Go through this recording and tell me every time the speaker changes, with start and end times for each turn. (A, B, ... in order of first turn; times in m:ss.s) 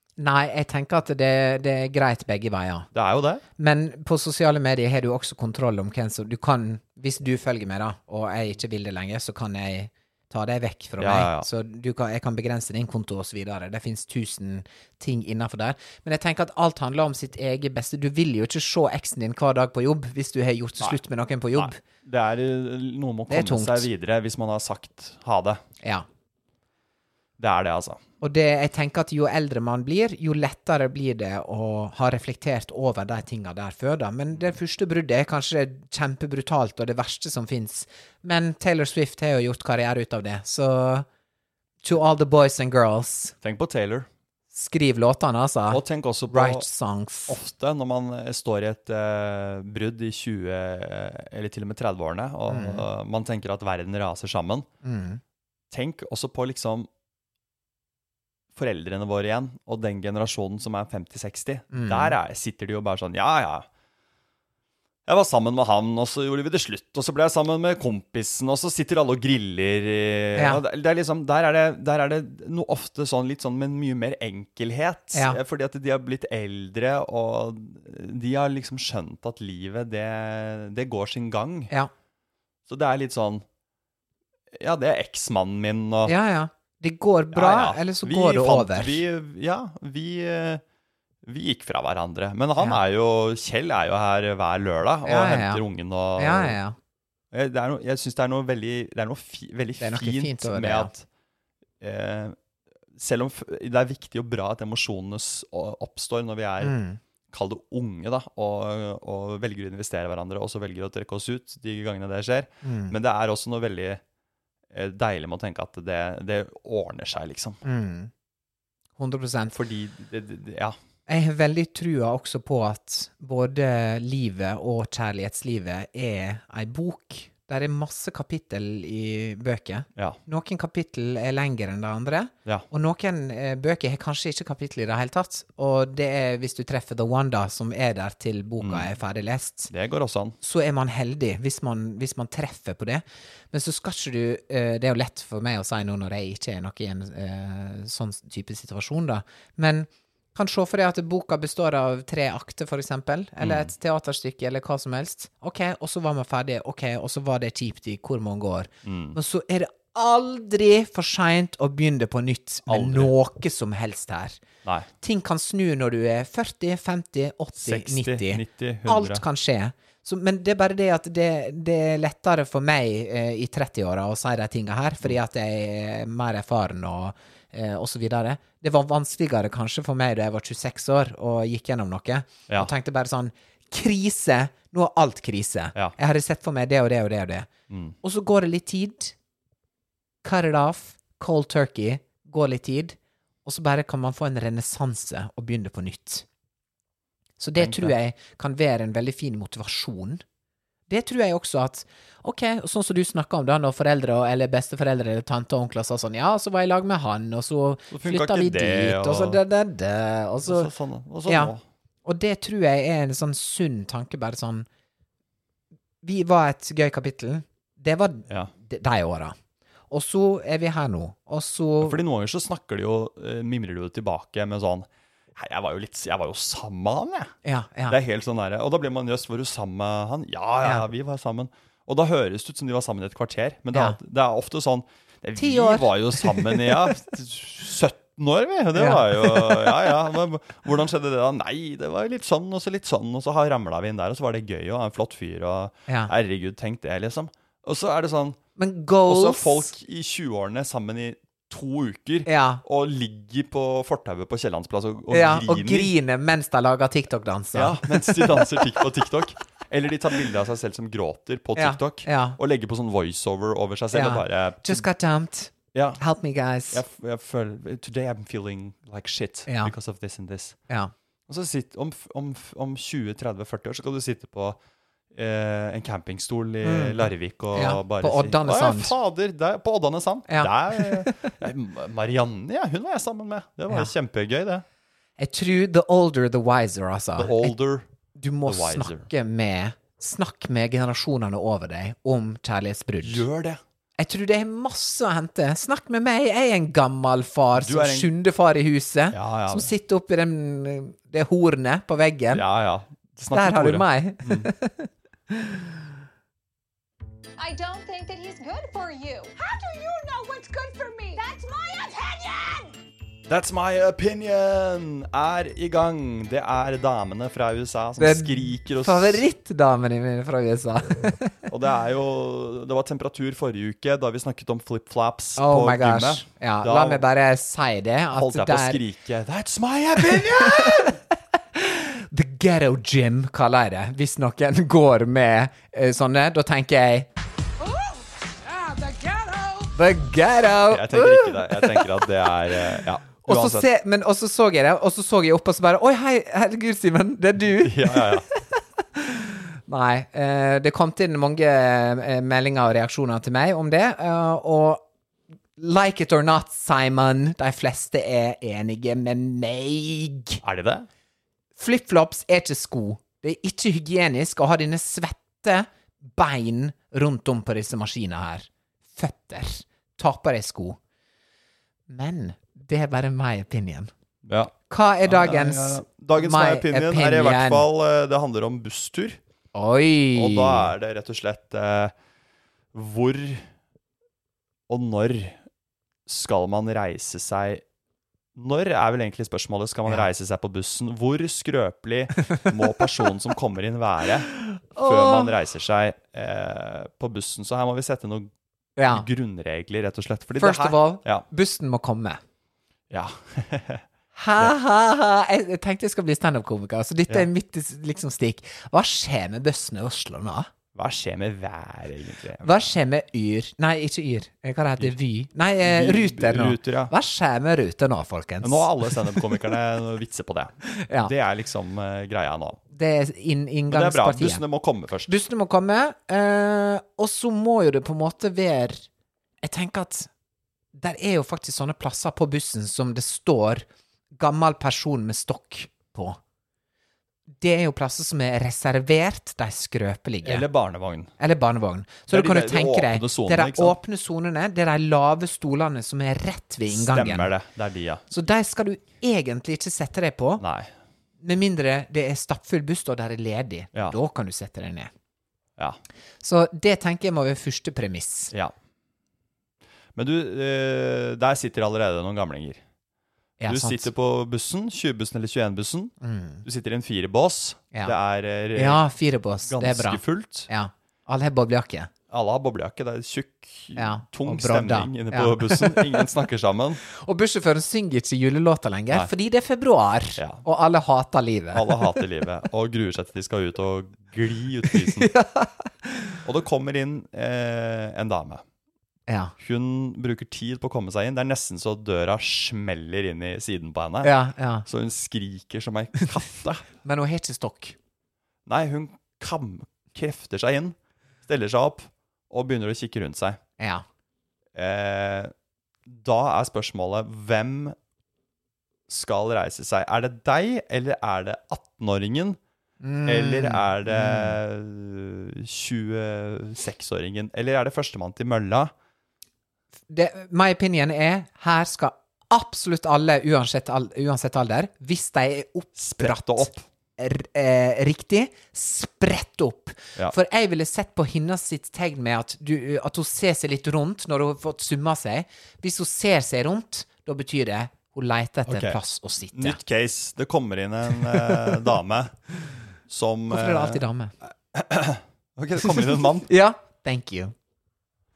0:00.2-0:02.9 A
0:02.9-0:03.4 B
0:03.6-0:21.8 A
0:11.0-0:11.5 B
0:21.5-0:25.6 B
0:23.3-0:23.9 A
0:25.8-0:26.0 A
0:27.4-0:28.0 B
0:28.2-0:41.0 A
0:41.8-0:43.3 A
0:43.4-0:44.1 B
0:44.5-0:47.4 A
0:45.7-0:46.6 B
0:47.3-0:54.7 B
0:52.5-0:52.9 A
0:54.8-0:55.2 A
0:55.7-0:56.9 B
0:58.5-1:03.7 B
1:01.7-1:02.2 A
1:05.0-1:21.7 B
1:10.4-1:10.6 A
1:15.1-1:15.4 A
1:22.7-1:23.4 B
1:24.5-1:26.1 B
1:26.0-1:29.0 A
1:27.3-1:30.6 B
1:31.2-1:36.6 B
1:35.0-1:35.6 A
1:36.2-1:36.8 A
1:37.3-1:41.0 B
1:39.8-1:40.9 A
1:41.8-1:42.4 B
1:42.9-1:46.8 B
1:46.6-1:47.0 A
1:47.3-1:54.0 B
1:52.6-1:52.9 A
1:54.7-1:57.6 B
1:57.6-1:58.1 A
1:59.0-1:59.6 A
1:59.5-2:00.8 B
2:01.1-2:19.7 A
2:18.6-2:18.9 B
2:19.7-2:20.4 B
2:20.4-2:44.4 A
2:33.4-2:33.7 B
2:38.8-2:39.2 B
2:42.7-2:43.1 B
2:44.6-2:44.9 B
2:45.0-3:07.5 A
2:47.6-2:49.2 B
3:07.7-3:08.0 B
3:08.0-3:09.1 A
3:10.2-3:16.2 A
3:17.4-3:20.2 A
3:17.6-3:17.9 B
3:20.9-3:30.7 A
3:27.9-3:29.4 B
3:30.4-3:31.6 B
3:31.2-3:31.5 A
3:32.0-3:34.6 A
3:36.0-3:39.3 A
3:39.9-3:42.0 A
3:41.8-3:47.3 B
3:47.4-3:48.0 A
3:47.9-4:08.4 B
3:53.7-3:54.0 A
3:55.4-3:56.9 A
3:58.7-3:59.8 A
4:08.6-4:09.7 A
4:09.0-4:15.9 B
4:12.2-4:12.6 A
4:15.1-4:18.6 A
4:17.5-4:24.8 B
4:21.6-4:22.4 A
4:23.9-4:26.8 A
4:25.7-4:26.0 B
4:26.7-4:30.6 B
4:29.5-4:29.7 A
4:31.3-4:34.6 B
4:35.1-4:44.6 B
4:36.6-4:38.9 A
4:40.3-4:41.4 A
4:45.2-4:47.6 A
4:47.2-4:47.8 B
4:48.2-4:53.2 A
4:48.4-4:49.1 B
4:53.0-4:53.6 B
4:54.0-5:02.4 A
4:57.5-4:58.1 B
4:59.1-4:59.7 B
5:02.3-5:04.5 B
5:03.3-5:05.7 A
5:07.4-5:12.7 C
5:13.3-5:19.2 B
5:18.0-5:21.4 A
5:21.5-5:27.0 B
5:25.4-5:28.8 A
5:28.1-5:31.0 B
5:30.0-5:31.0 A
5:31.5-5:37.1 A
5:37.6-5:39.7 C
5:39.7-5:42.1 A
5:40.6-5:43.7 B
5:43.2-5:54.8 A
5:47.6-5:48.2 B
5:55.6-6:00.4 A
6:00.4-6:00.9 B
6:01.6-6:10.8 A
6:11.9-6:13.9 A
6:14.2-6:14.5 B
6:14.7-6:17.7 A
6:15.0-6:19.2 B
6:19.5-6:20.7 A
6:20.1-6:21.9 B
6:22.7-6:23.5 B
6:24.7-6:25.4 B
6:26.0-6:27.6 B
6:28.4-6:38.3 B
6:34.4-6:35.3 A
6:38.8-6:39.0 A
6:38.8-6:41.2 B
6:40.4-6:42.2 A
6:42.9-6:43.8 B
6:44.1-6:50.5 A
6:50.7-6:52.7 B
6:52.4-6:59.5 A
6:55.6-6:56.9 B
6:58.4-7:02.6 B
7:00.7-7:01.1 A
7:02.7-7:04.4 A
7:03.7-7:05.2 B
7:05.1-7:08.8 A
7:09.4-7:10.1 A
7:10.7-7:16.2 A
7:17.4-7:20.5 A
7:20.2-7:21.1 B
7:21.2-7:27.3 A
7:22.1-7:23.8 B
7:26.7-7:28.1 B
7:28.1-7:30.4 A
7:30.4-7:30.7 B
7:31.2-7:34.9 A
7:36.2-7:38.3 A
7:39.9-7:42.6 B
7:43.4-7:43.9 A
7:43.4-7:45.9 B
7:46.0-7:46.4 A
7:46.4-7:48.8 B
7:48.5-7:51.9 A
7:49.4-7:50.5 B
7:52.1-7:56.8 B
7:53.8-7:56.1 A
7:56.8-8:02.0 A
8:00.2-8:00.4 B
8:01.5-8:05.1 B
8:04.7-8:06.2 A
8:06.2-8:08.4 B
8:09.1-8:09.3 A
8:09.4-8:16.6 B
8:14.0-8:14.6 A
8:16.8-8:17.8 A
8:18.4-8:23.4 B
8:23.6-8:23.8 A
8:24.5-8:25.3 B
8:25.8-8:27.8 B
8:28.9-8:32.4 B
8:32.8-8:34.4 A
8:33.0-8:38.7 B
8:39.9-8:59.6 A
8:45.8-8:46.6 B
8:58.5-8:58.8 B
8:59.3-9:02.2 B
9:01.1-9:01.6 A
9:02.9-9:03.8 B
9:03.3-9:04.1 A
9:04.5-9:06.3 B
9:05.6-9:07.3 A